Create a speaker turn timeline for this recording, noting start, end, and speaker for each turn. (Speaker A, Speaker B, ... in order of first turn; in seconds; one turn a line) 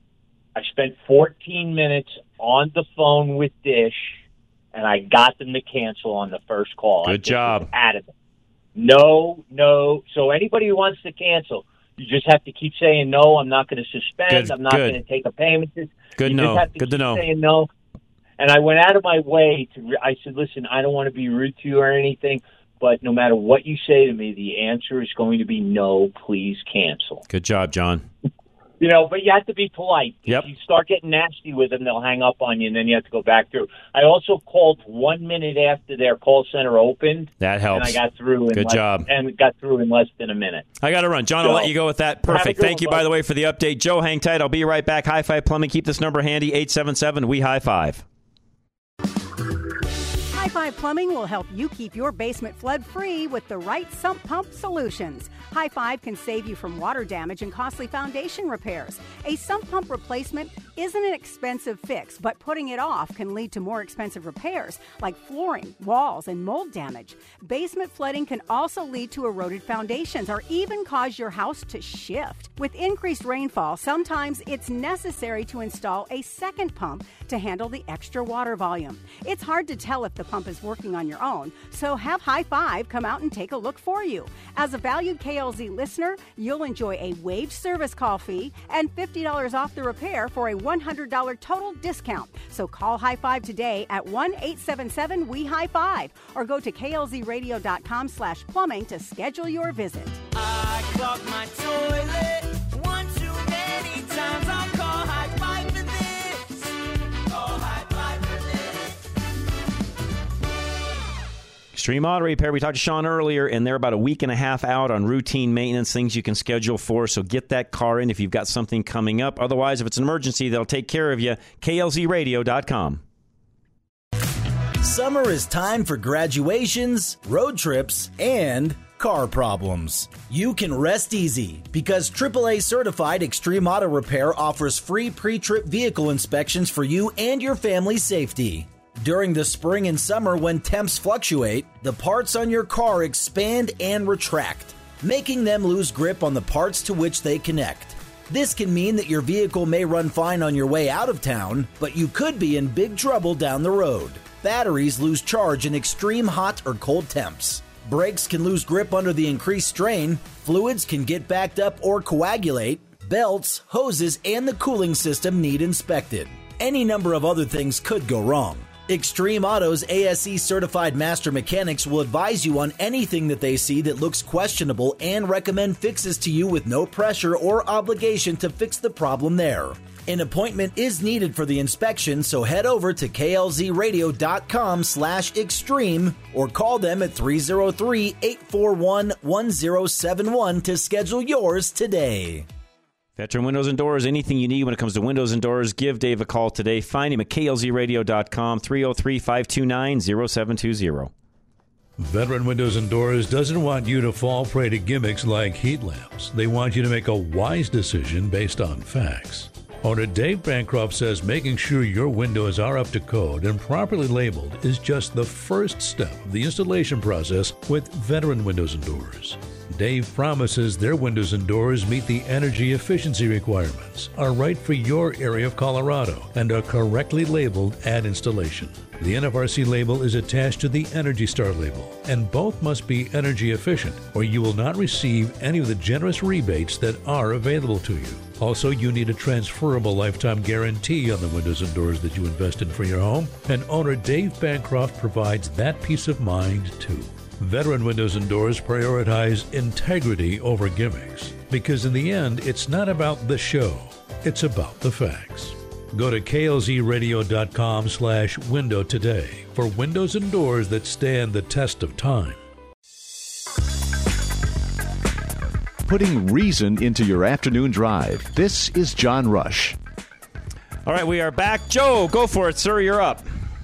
Speaker A: 0.6-4.2
Speaker A: 4.7-8.1
Speaker B: 7.0-7.7
Speaker A: 8.8-17.7
Speaker B: 14.3-15.0
Speaker B: 16.2-17.2
Speaker A: 18.4-27.2
Speaker B: 27.3-28.1
Speaker A: 28.8-40.7
Speaker B: 37.4-38.0
Speaker B: 38.5-39.1
Speaker B: 40.8-48.0
Speaker A: 41.4-41.7
Speaker A: 42.3-43.0
Speaker C: 50.3-100.2
Speaker D: 100.8-101.6
Speaker D: 102.5-103.1
Speaker D: 104.0-106.3
Speaker D: 107.5-108.3
Speaker B: 111.7-123.0
Speaker E: 124.8-192.5
Speaker B: 193.2-201.1
Speaker F: 202.0-262.4
Speaker G: 265.9-269.8
Speaker B: 270.9-273.2